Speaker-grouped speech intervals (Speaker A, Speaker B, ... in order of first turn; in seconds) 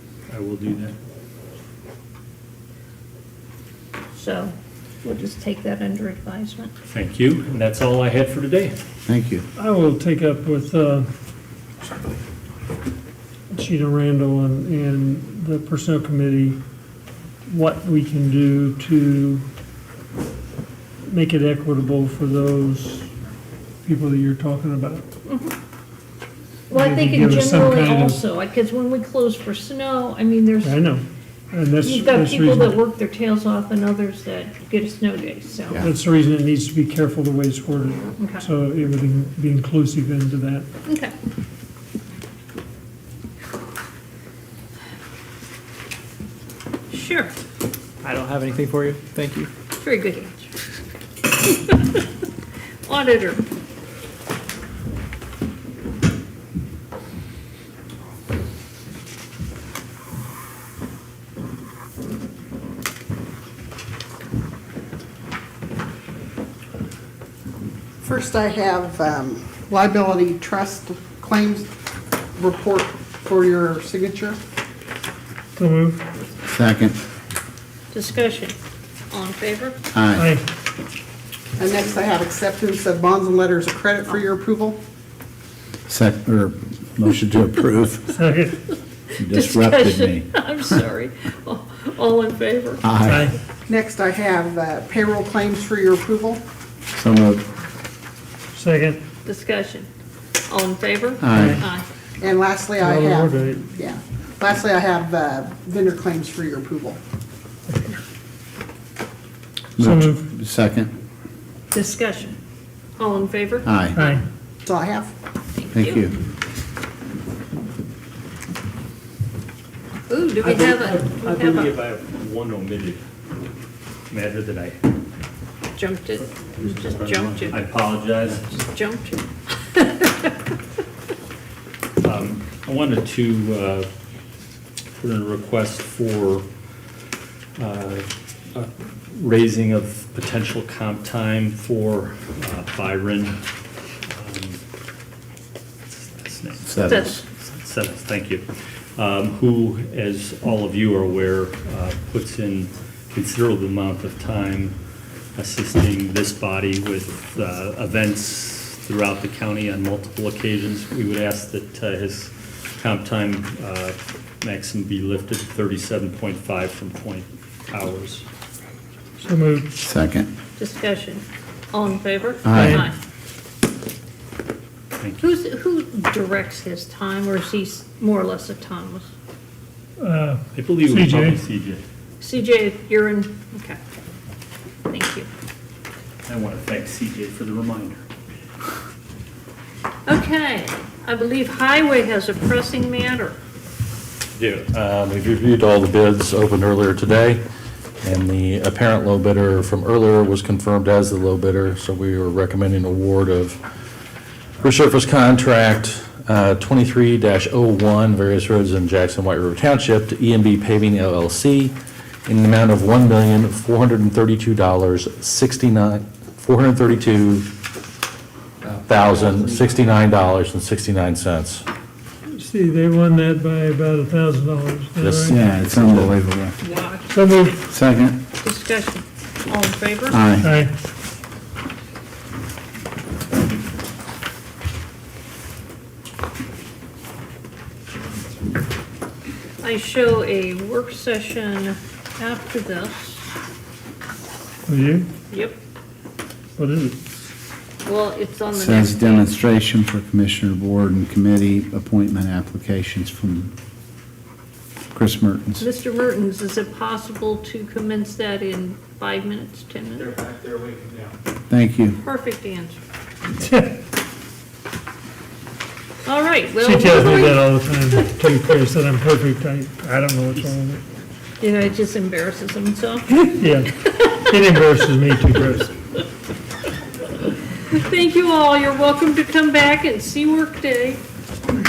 Speaker A: 0.3-0.9, 6.9-8.8, 120.4-123.0, 124.1-124.8, 126.5-128.4, 132.0-133.9, 135.0-136.4, 137.6-143.4, 144.1-144.6, 145.8-154.7, 155.3-168.2, 180.5-181.8, 186.2-188.0
Speaker B: 4.1-6.7, 25.2-25.5, 26.7-30.9, 31.8-35.9, 38.2-38.5, 40.9-41.1, 46.9-47.3, 49.8-50.5, 51.3-52.0, 52.8-53.4, 77.9-78.5, 79.1-79.8, 89.3-92.8, 99.2-99.9, 100.5-101.8, 111.7-112.4, 113.0-114.2, 115.5-116.0, 120.1-121.7, 125.7-127.6, 128.4-130.3, 146.8-147.2, 170.6-173.0, 175.2-179.1, 182.2-183.8, 184.8-185.3, 190.1-193.4, 226.6-227.1, 228.4-230.2, 239.6-243.3, 245.3-245.6, 247.8-249.4, 255.6-260.1, 262.0-262.8, 266.0-268.1, 271.4-273.2, 273.9-274.2, 277.7-281.0
Speaker C: 9.1-9.4, 76.5-77.0, 79.9-80.3, 85.9-88.1, 89.2-90.3, 92.8-93.3, 96.9-97.4, 101.2-101.6, 109.8-110.9, 113.6-114.0, 115.7-116.1, 146.6-147.2, 169.8-170.3, 172.4-172.8, 225.2-226.6, 227.7-228.2, 230.1-230.5, 248.5-253.5, 254.9-255.7, 261.5-262.0
Speaker D: 9.6-11.1, 13.5-16.6, 17.5-19.4, 21.1-23.1, 23.8-25.0, 26.7-28.2, 30.6-32.9, 35.8-40.6, 75.5-76.0, 80.2-80.4, 88.1-88.5, 93.0-93.3, 98.5-99.0, 101.3-101.6, 102.8-103.6, 109.8-110.2, 114.0-114.2, 169.2-169.7, 172.5-172.8, 180.0-181.4, 222.3-225.4, 227.1-227.6, 230.4-230.7, 244.7-245.1, 246.6-246.9, 263.3-263.7, 266.6-270.8, 273.2-275.7
Speaker E: 48.0-49.5, 260.0-261.1
Speaker F: 68.0-71.7, 72.3-74.4, 81.6-84.8, 93.7-96.4, 102.2-107.0, 114.6-115.1
Speaker G: 194.4-197.4, 198.0-203.6, 204.6-211.7, 212.3-217.4, 218.6-221.6, 225.0-226.1